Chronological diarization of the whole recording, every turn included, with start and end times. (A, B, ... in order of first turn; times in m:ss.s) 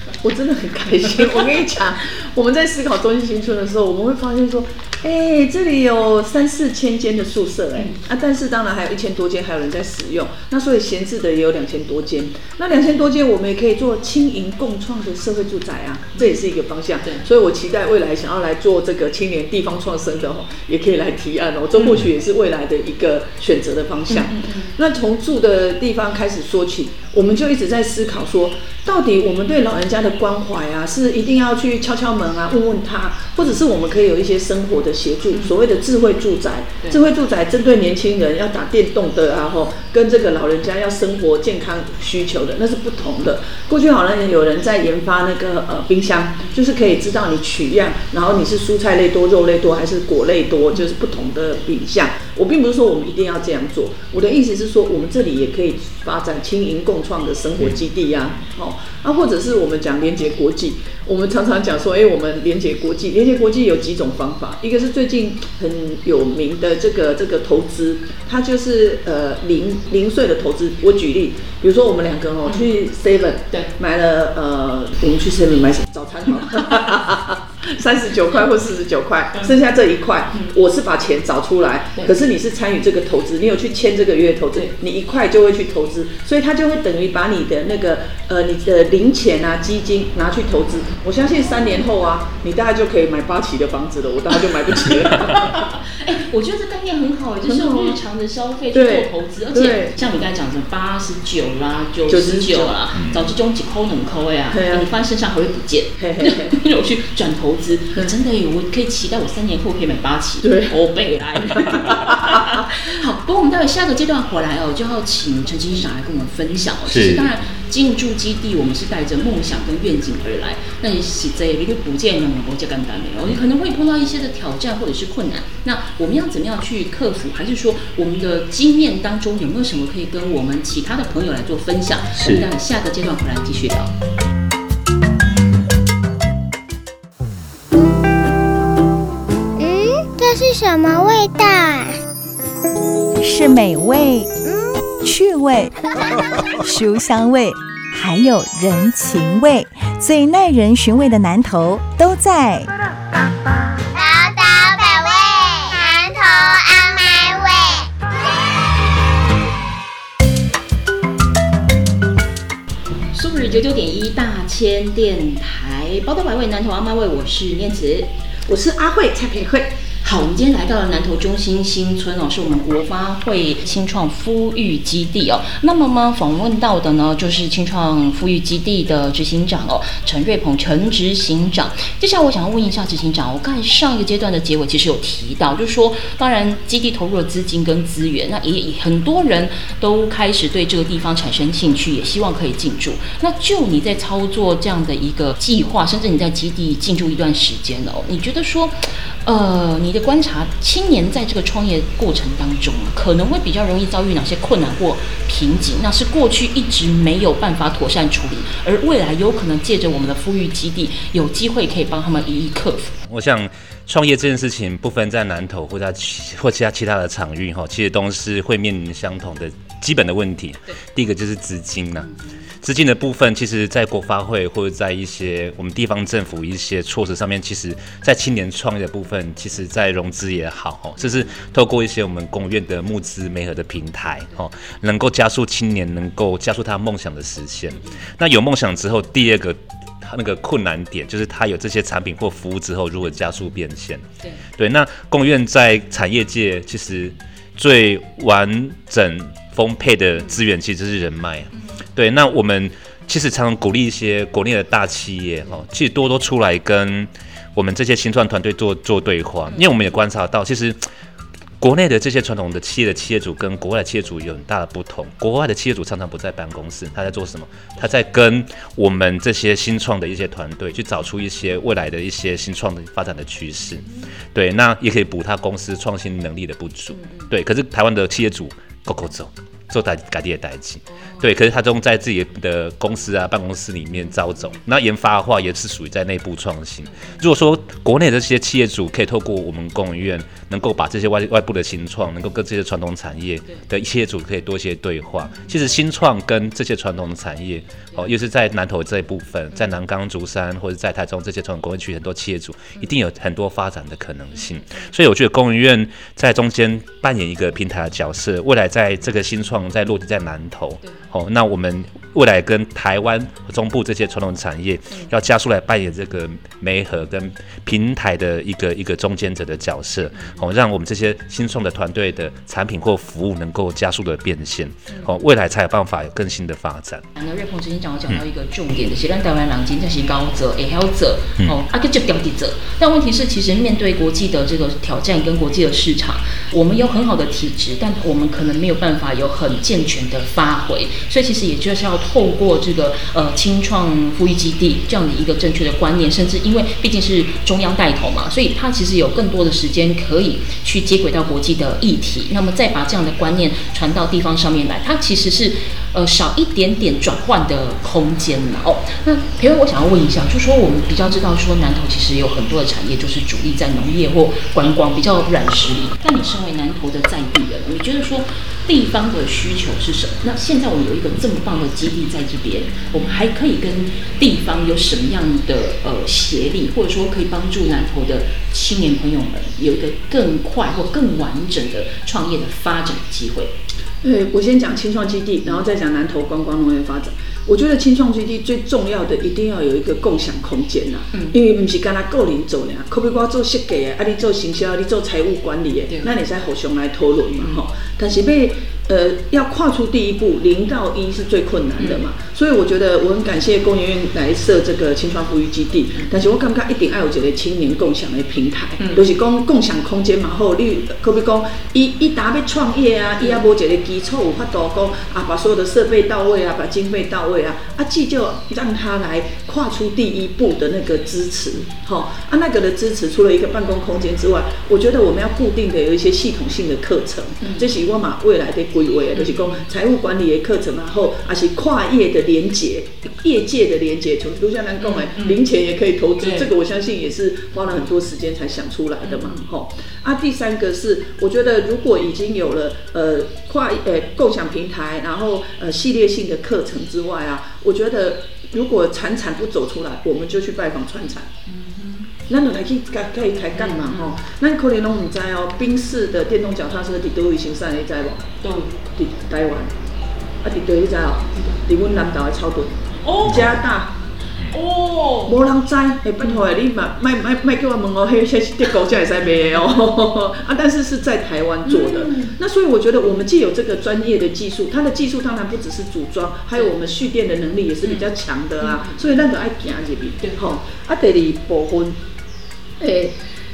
0:00.2-1:35.7 A
0:24.1-0:24.7 B
1:35.4-2:13.9 B
1:37.5-1:38.0 A
1:38.7-1:39.9 A
1:42.1-1:42.8 A
1:44.5-1:44.9 A
1:46.0-1:46.6 A
1:50.4-1:50.8 A
1:51.9-1:52.4 A
1:56.9-1:57.3 C
2:12.2-2:12.5 C
2:19.6-2:22.0 D
2:23.2-2:24.3 E
2:25.0-2:25.8 E
2:26.6-2:32.7 E
2:33.9-2:37.9 D
2:43.1-2:48.1 B
2:48.5-2:49.7 A
2:50.0-3:32.9 B
3:33.1-3:42.1 C
3:42.6-4:04.0 C
4:04.6-4:20.8 C
4:21.6-5:27.0 C
5:04.5-5:04.8 B
5:20.1-5:20.4 B
5:27.2-6:23.5 B
6:24.0-7:31.3 A
6:48.8-6:49.0 B
7:09.1-7:09.6 B
7:14.8-7:15.4 B
7:16.2-7:16.5 B
7:19.0-7:19.4 B
7:31.5-7:32.1 B
7:32.3-7:38.2 A
7:33.5-7:34.2 B
7:38.4-7:38.7 B
7:38.9-7:39.7 A
7:40.4-7:44.0 A
7:43.0-7:43.6 B
7:43.3-7:43.5 C
7:44.5-7:45.4 B
7:45.2-8:02.0 A
7:46.2-7:46.5 B
7:51.6-7:52.4 B
7:57.8-7:58.1 B
7:58.6-7:59.2 B
8:02.8-8:03.1 A